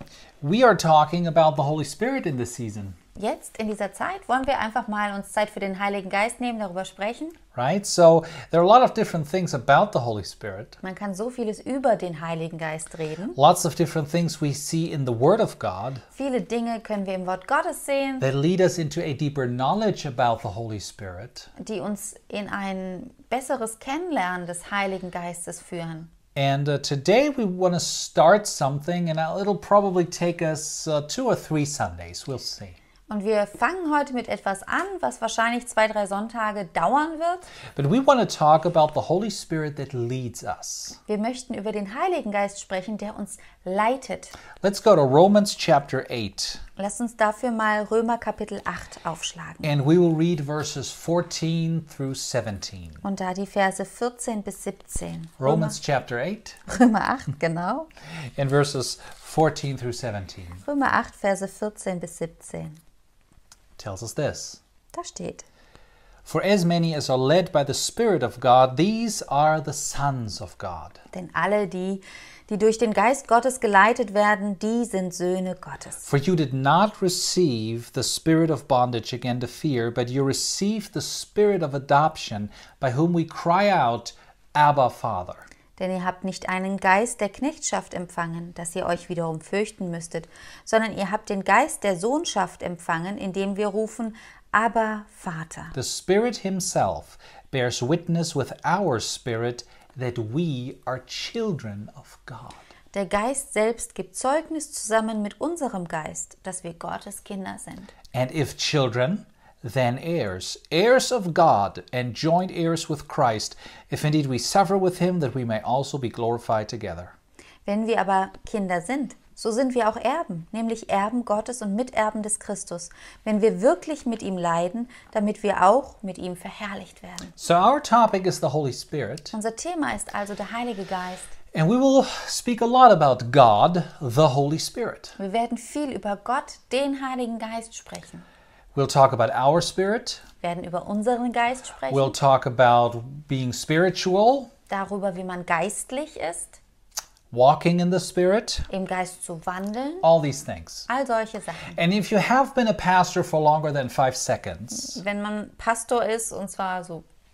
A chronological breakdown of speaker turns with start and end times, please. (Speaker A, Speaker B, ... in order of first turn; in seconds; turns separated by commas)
Speaker A: 0.4-3.0, Speaker B: 3.1-7.4, Speaker A: 7.5-10.8, Speaker B: 10.8-13.4, Speaker A: 13.4-16.0, Speaker B: 16.1-18.2, Speaker A: 18.2-21.5, Speaker B: 21.6-26.1, Speaker A: 26.3-32.8, Speaker B: 33.1-37.5, Speaker A: 37.8-41.0, Speaker B: 41.1-44.4, Speaker A: 44.6-46.6, Speaker B: 46.8-49.7, Speaker A: 49.6-53.0, Speaker B: 53.0-55.8, Speaker A: 55.4-56.6, Speaker B: 56.7-57.9, Speaker A: 58.4-60.6, Speaker B: 60.6-62.8, Speaker A: 63.8-64.6, Speaker B: 64.9-65.4, Speaker A: 66.2-71.0, Speaker B: 71.1-76.1, Speaker A: 76.0-85.4, Speaker B: 85.8-95.8, Speaker A: 95.7-102.6, Speaker B: 102.9-107.9, Speaker A: 108.1-117.1, Speaker B: 117.7-127.3, Speaker A: 127.4-129.3, Speaker B: 129.3-131.3, Speaker A: 131.5-135.2, Speaker B: 135.2-138.2, Speaker A: 138.8-140.2, Speaker B: 140.4-142.2, Speaker A: 141.9-144.5, Speaker B: 144.7-146.6, Speaker A: 147.3-148.7, Speaker B: 148.7-150.1, Speaker A: 150.0-150.9, Speaker B: 150.9-151.8, Speaker A: 151.8-155.0, Speaker B: 154.7-157.0